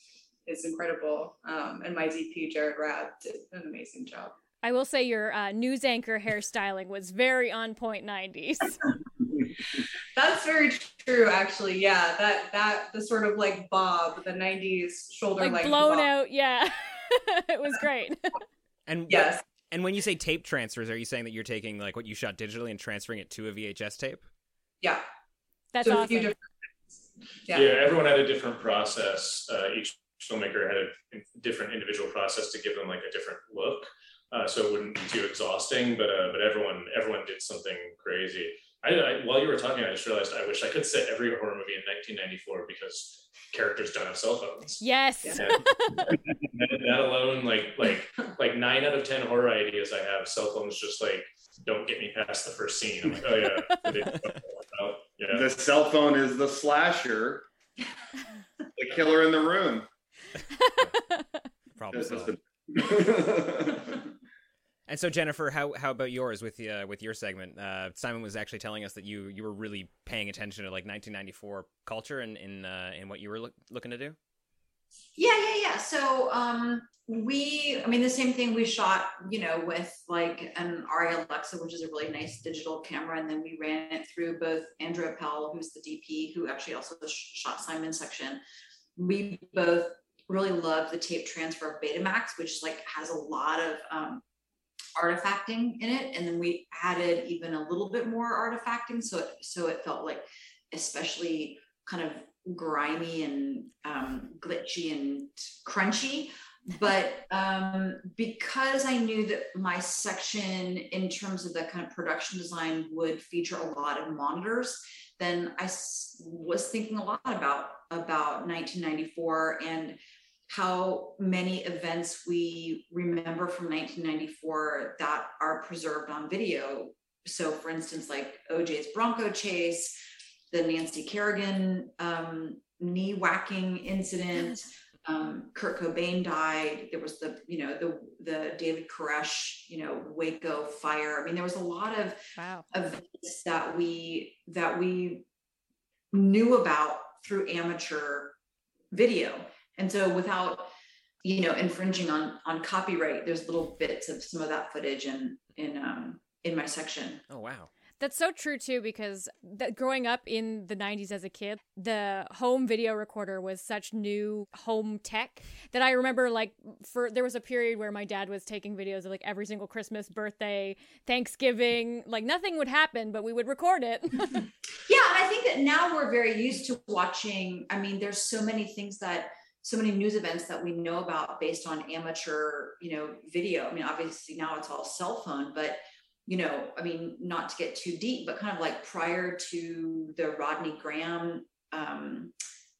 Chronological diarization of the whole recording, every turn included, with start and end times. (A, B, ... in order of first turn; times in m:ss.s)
0:00.4-0:04.4 A
0:04.6-0:08.8 B
0:10.2-0:16.1 A
0:15.4-0:18.4 B
0:18.9-0:24.2 C
0:19.1-0:19.4 A
0:25.7-0:26.3 B
0:25.8-0:26.4 A
0:27.5-0:27.7 A
0:27.5-0:55.5 D
0:44.8-0:46.1 B
0:55.3-0:57.4 E
0:58.8-0:59.9 E
1:01.8-1:02.4 C
1:01.9-1:04.0 E
1:04.9-1:14.2 C
1:15.2-1:28.4 F
1:29.0-1:34.2 F
1:35.0-2:10.0 F
2:10.5-2:22.2 F
2:22.4-2:22.6 B
2:22.7-2:25.2 F
2:26.1-2:28.3 F
2:28.9-2:30.7 F
2:31.2-2:37.2 F
2:37.3-2:37.7 C
2:38.0-2:54.5 B
2:54.8-3:12.3 F